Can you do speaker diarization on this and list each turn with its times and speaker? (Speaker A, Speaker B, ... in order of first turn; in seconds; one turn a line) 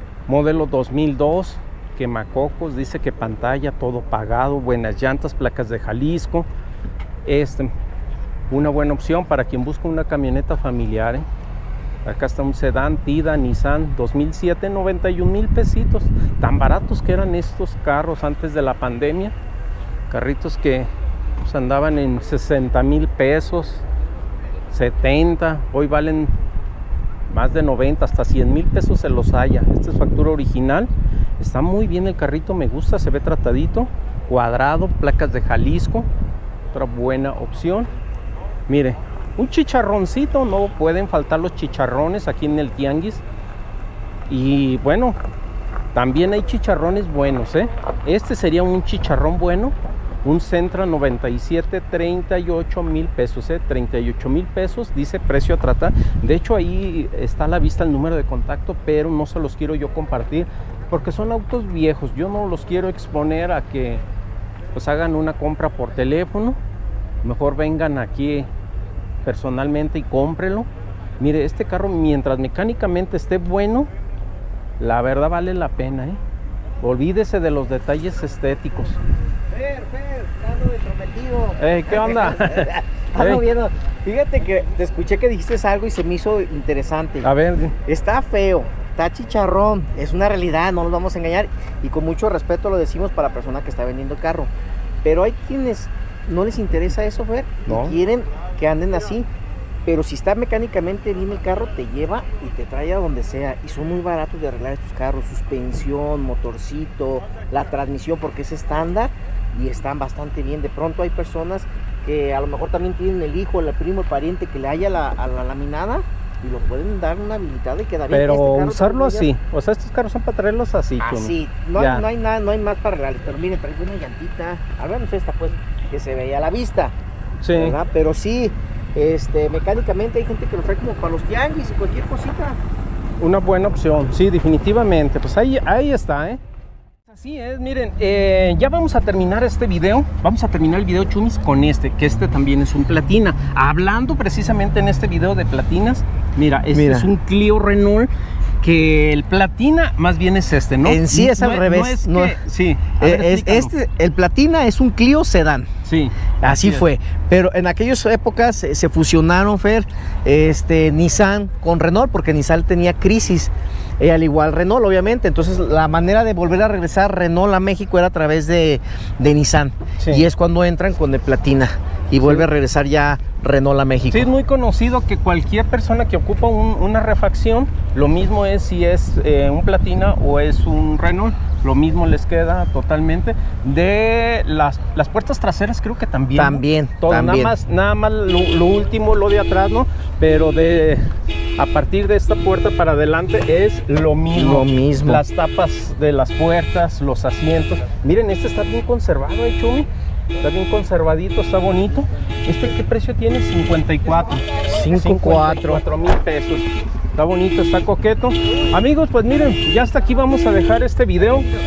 Speaker A: 0.3-6.5
Speaker A: 7.2-7.7
Speaker A: 8.5-11.3
Speaker A: 12.0-19.3
Speaker A: 20.1-23.8
Speaker A: 24.7-26.3
Speaker A: 27.3-36.1
Speaker A: 36.7-37.9
Speaker A: 38.7-43.2
Speaker A: 44.3-45.2
Speaker A: 45.9-64.0
Speaker A: 64.7-66.6
Speaker A: 67.2-68.5
Speaker A: 69.2-70.7
Speaker A: 71.2-73.9
Speaker A: 74.8-76.2
Speaker A: 76.8-79.0
Speaker B: 79.5-87.3
Speaker A: 81.6-83.5
Speaker A: 87.2-87.8
Speaker B: 87.8-94.5
Speaker B: 95.0-99.3
Speaker A: 97.7-98.0
Speaker B: 99.8-119.3
Speaker A: 118.1-122.0
Speaker B: 121.0-126.9
Speaker A: 127.4-127.8
Speaker B: 127.5-132.6
Speaker A: 133.2-136.4
Speaker A: 137.1-153.7
Speaker B: 146.7-147.1
Speaker B: 150.8-152.4
Speaker B: 153.0-155.7
Speaker A: 155.8-156.9
Speaker B: 156.4-174.3
Speaker A: 170.0-170.3
Speaker A: 172.2-172.5
Speaker A: 174.1-199.9
Speaker B: 186.3-187.5
Speaker B: 194.3-195.2
Speaker A: 200.4-211.5
Speaker B: 204.7-205.8